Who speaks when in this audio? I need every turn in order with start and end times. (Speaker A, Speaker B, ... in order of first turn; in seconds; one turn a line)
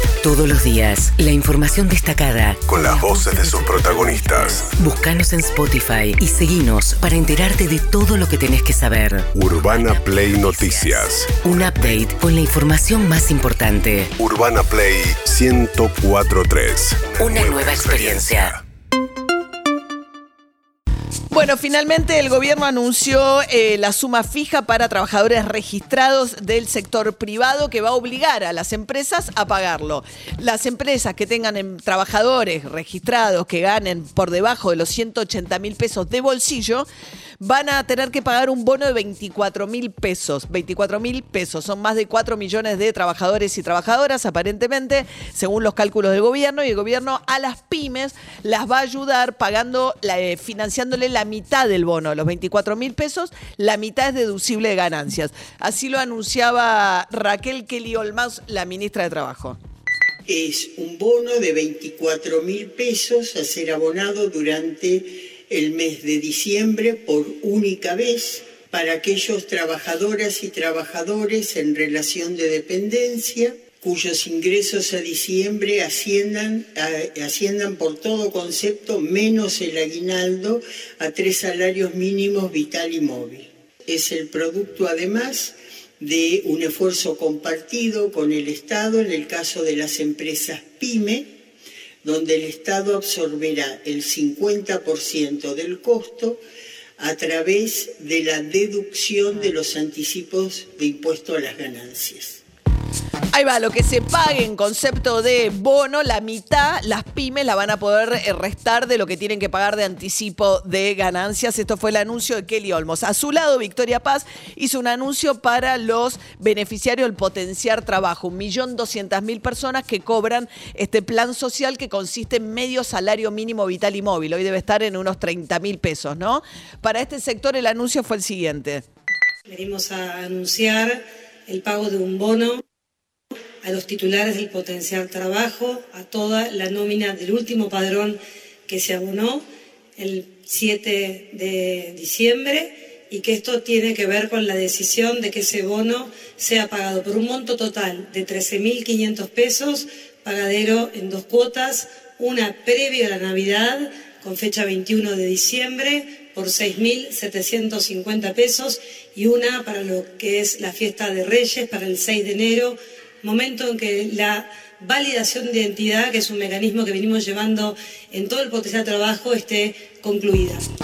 Speaker A: 0.2-14.1
Speaker B: 2.7-4.7
Speaker B: 9.3-12.0
Speaker B: 14.2-18.6
Speaker A: 17.2-18.5
Speaker C: 21.3-36.9
Speaker C: 37.4-59.6
Speaker D: 60.3-91.3
Speaker D: 92.0-96.4
Speaker D: 97.0-102.4
Speaker C: 103.3-128.8
Speaker E: 129.5-132.6
Speaker E: 133.6-139.4
Speaker E: 140.0-170.6